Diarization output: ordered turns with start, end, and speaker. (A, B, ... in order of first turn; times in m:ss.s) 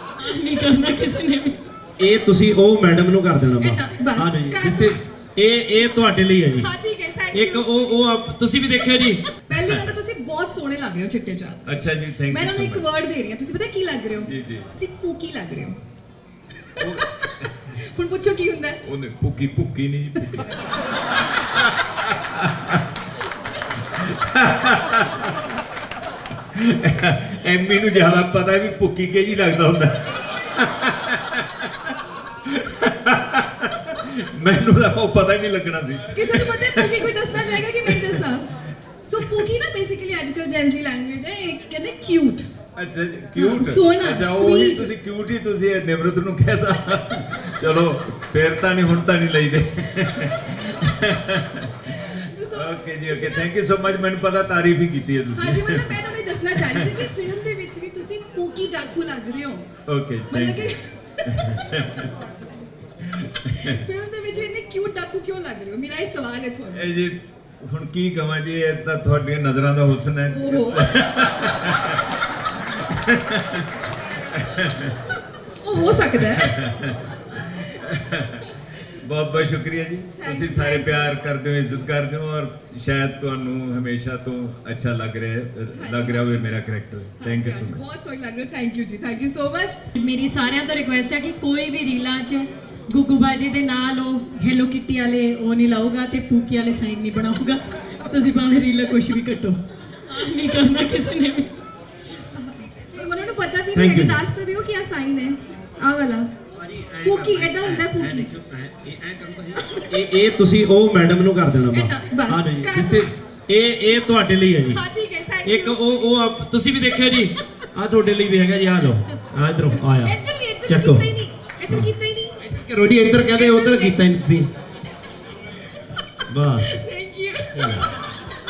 0:00.2-0:01.6 A
0:02.0-0:06.7 B
0:03.5-0:05.0 C
0:06.5-0:07.7 C
0:07.3-0:09.3 B
0:09.5-0:11.8 C
0:09.5-0:09.9 D
0:11.6-0:12.9 D
0:12.3-0:15.8 C
0:14.2-0:14.7 D
0:16.8-0:17.7 D
0:16.8-0:18.8 C
0:18.8-0:20.5 D
0:21.4-0:22.8 D
0:23.8-0:25.4 D
0:26.5-0:38.2 D
0:36.1-0:42.5 C
0:39.2-0:39.5 D
0:42.8-0:56.0 D
0:43.4-0:44.9 C
0:52.3-0:53.5 C
0:55.3-0:59.7 C
0:56.6-0:57.1 D
0:59.9-1:00.7 D
1:00.3-1:01.6 C
1:01.3-1:02.1 D
1:03.0-1:03.8 D
1:03.6-1:06.9 C
1:06.7-1:15.0 D
1:10.3-1:10.9 C
1:15.6-1:16.6 C
1:16.2-1:27.8 D
1:20.2-1:21.1 C
1:25.7-1:26.5 C
1:27.2-1:29.8 C
1:30.0-1:41.5 A
1:42.2-1:46.3 C
1:43.7-1:44.2 B
1:46.5-1:54.8 B
1:47.0-1:48.3 C
1:49.6-1:50.0 C
1:51.7-1:53.1 C
1:54.7-1:55.8 C
1:55.4-2:01.1 B
2:00.0-2:02.4 C
2:02.4-2:04.5 B
2:03.3-2:04.0 C
2:06.3-2:06.6 B
2:06.6-2:08.2 C
2:07.5-2:07.9 B